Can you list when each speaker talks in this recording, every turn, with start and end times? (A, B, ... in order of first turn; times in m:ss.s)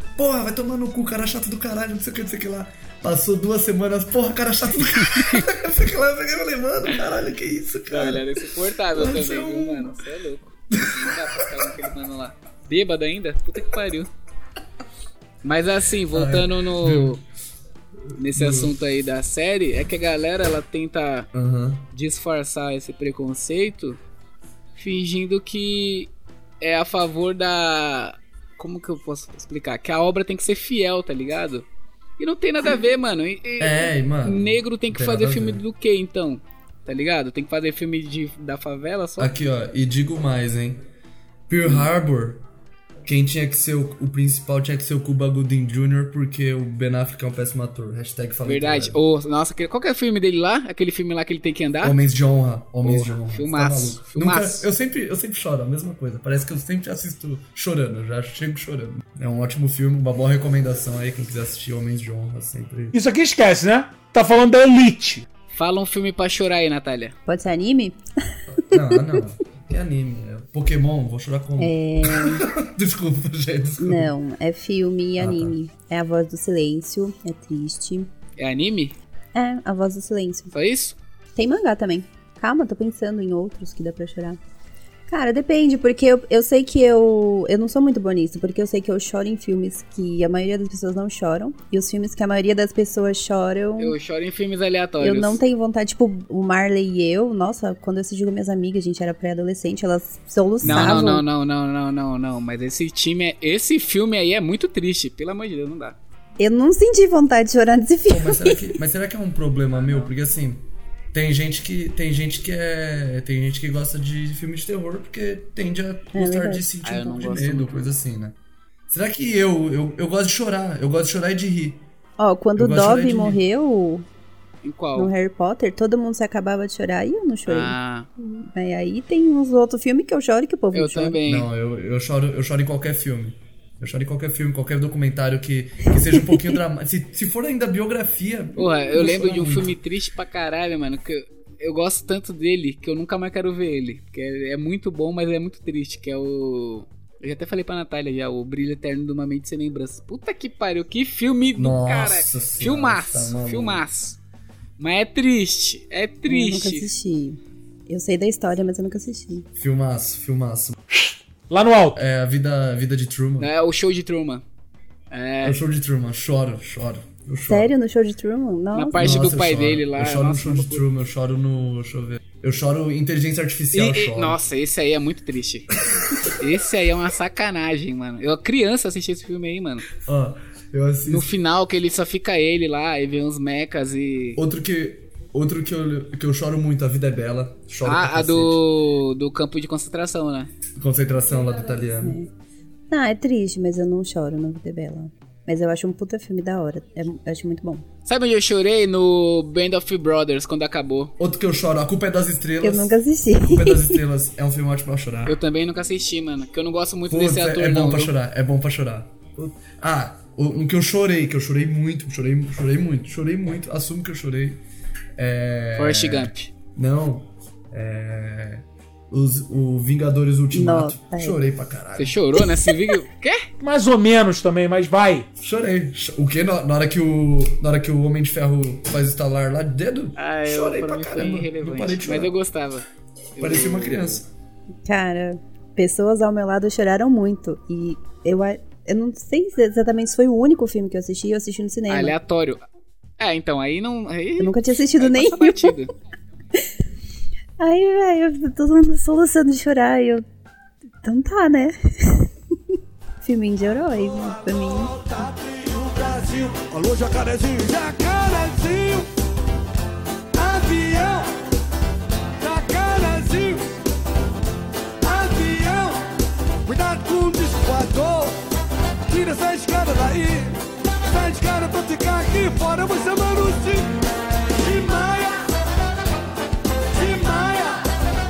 0:00.2-0:08.4 A
0:05.2-0:05.4 B
0:07.9-0:14.1 B
0:08.9-0:10.0 A
0:10.7-0:11.6 A
0:15.4-0:17.2 B
0:16.1-0:17.2 A
0:18.1-0:18.7 A
0:18.2-0:21.3 B
0:21.3-0:21.8 A
0:21.9-0:24.0 B
0:24.8-0:31.6 B
0:32.2-0:39.3 B
0:33.6-0:35.6 A
0:39.2-0:40.8 A
0:41.5-0:42.4 A
0:43.0-0:49.0 A
0:48.4-0:52.0 B
0:51.8-1:03.0 A
0:52.8-0:54.6 B
1:02.9-1:05.2 C
1:05.5-1:07.2 B
1:07.3-1:09.2 D
1:08.6-1:14.1 A
1:11.6-1:12.5 D
1:13.8-1:18.1 D
1:15.2-1:15.5 A
1:18.4-1:19.0 B
1:19.3-1:20.5 D
1:20.5-1:21.0 B
1:21.4-1:24.4 D
1:25.1-1:33.9 D
1:33.8-1:35.4 B
1:35.0-1:41.2 D
1:40.6-1:41.1 A
1:40.6-1:46.0 B
1:46.4-1:48.6 D
1:48.1-1:58.4 A
1:56.1-1:56.6 D
1:56.8-1:57.9 B
1:58.9-2:01.8 A
2:02.2-2:04.0 D
2:02.6-2:03.4 A
2:04.6-2:05.1 B
2:04.9-2:11.2 D
2:07.4-2:08.1 B
2:10.7-2:11.5 B
2:11.2-2:19.7 A
2:18.6-2:34.2 B
2:31.5-2:33.8 A
2:34.8-2:36.9 B
2:36.3-2:39.4 D
2:39.5-2:40.7 A
2:40.9-2:42.0 C
2:41.9-2:43.5 A
2:43.4-2:44.4 B
2:45.1-2:45.6 B
2:45.4-2:47.7 A
2:47.5-2:49.2 D
2:48.7-2:50.9 B
2:49.0-2:54.4 A
2:53.7-2:59.9 B
3:00.0-3:01.3 A
3:01.0-3:04.4 B
3:04.4-3:08.6 A
3:07.8-3:10.5 B
3:10.8-3:12.2 A
3:12.0-3:12.3 D
3:12.9-3:17.8 D
3:18.0-3:21.1 B
3:21.2-3:25.4 A
3:22.6-3:24.0 D
3:25.2-3:28.1 B
3:27.1-3:34.6 A
3:35.2-3:42.2 A
3:35.7-3:36.5 B
3:40.5-3:41.4 D
3:42.0-3:43.5 B
3:43.6-3:45.3 C
3:45.4-3:52.3 A
3:50.2-3:52.8 B
3:53.4-3:54.2 B
3:53.4-3:54.3 A
3:54.8-4:02.1 D
4:01.9-4:02.6 B
4:03.2-4:05.9 B
4:04.4-4:05.8 D
4:07.6-4:10.2 D
4:11.0-4:12.3 D
4:13.2-4:15.0 D
4:14.5-4:19.1 E
4:20.3-4:21.3 E
4:22.4-4:23.7 E
4:25.0-4:26.1 E
4:26.6-4:28.4 E
4:29.1-4:33.9 E
4:34.5-4:35.5 E
4:36.9-4:37.9 E